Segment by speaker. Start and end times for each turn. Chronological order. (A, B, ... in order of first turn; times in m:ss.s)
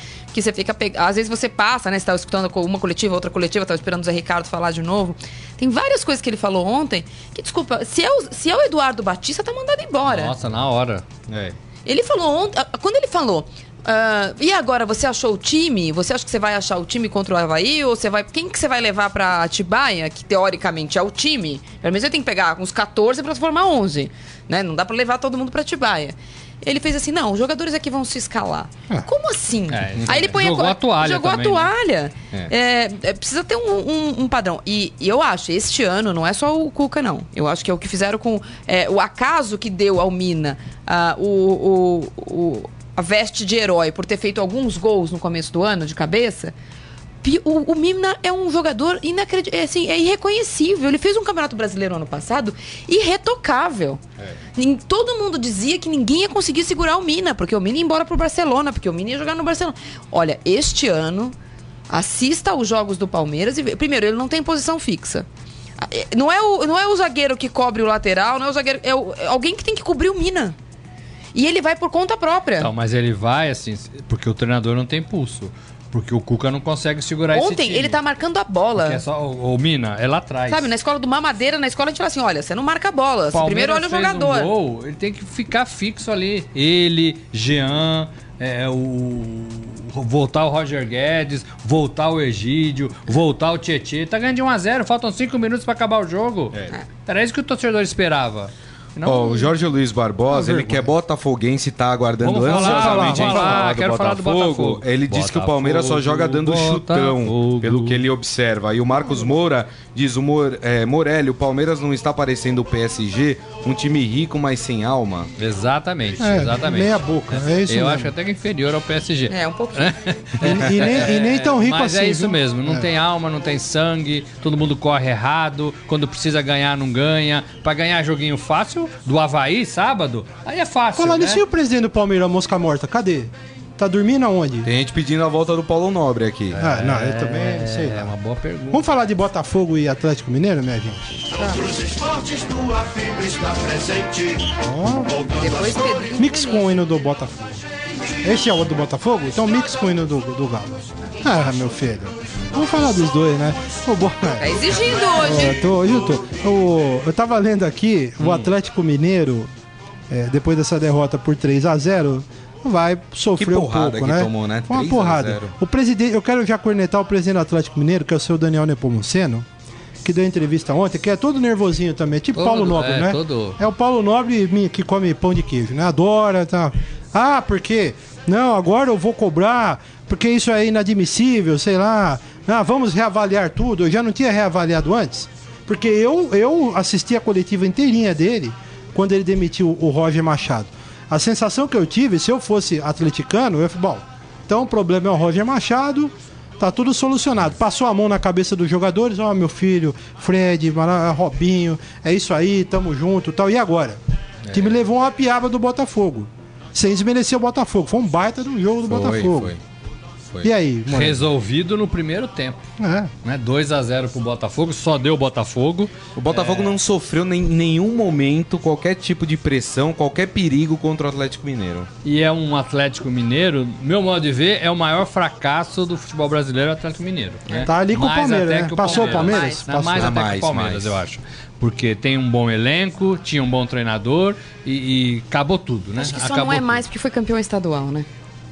0:00.3-0:10.3 A
0:10.1-0:11.0 B
0:11.3-0:11.6 C
0:11.9-0:46.5 A
0:29.7-0:31.7 B
0:47.2-0:54.0 A
0:54.6-1:01.4 A
1:01.9-1:05.3 A
1:05.8-1:10.6 A
1:11.3-1:12.7 A
1:12.6-1:18.0 B
1:17.3-1:19.0 A
1:18.8-1:20.7 B
1:20.5-1:24.5 A
1:23.3-1:39.5 B
1:36.5-1:36.8 C
1:39.0-1:55.3 C
1:40.3-1:40.9 D
1:42.2-1:48.0 B
1:42.4-1:43.7 D
1:49.0-1:49.4 D
1:55.4-2:11.4 B
1:56.2-1:58.1 D
1:59.3-2:00.2 A
2:00.4-2:02.9 D
2:11.0-2:14.7 D
2:14.6-2:16.6 C
2:16.5-2:18.8 B
2:16.6-2:18.1 D
2:18.7-2:21.4 D
2:21.4-2:21.7 A
2:24.5-2:25.5 D
2:25.3-2:26.7 A
2:26.2-2:27.6 D
2:28.2-2:34.5 D
2:34.4-2:35.6 A
2:35.1-2:39.5 D
2:40.1-2:49.5 D
2:43.4-2:45.6 C
2:50.0-3:24.0 D
2:52.3-2:53.6 B
3:24.5-3:24.7 B
3:24.5-3:29.5 D
3:28.9-3:29.6 C
3:30.4-3:31.3 D
3:30.9-3:32.7 B
3:32.8-3:33.1 D
3:33.2-3:36.8 B
3:36.2-3:41.9 C
3:42.0-3:56.8 B
3:47.6-3:50.2 D
3:48.8-3:49.6 A
3:50.0-3:51.0 C
3:56.0-3:58.1 A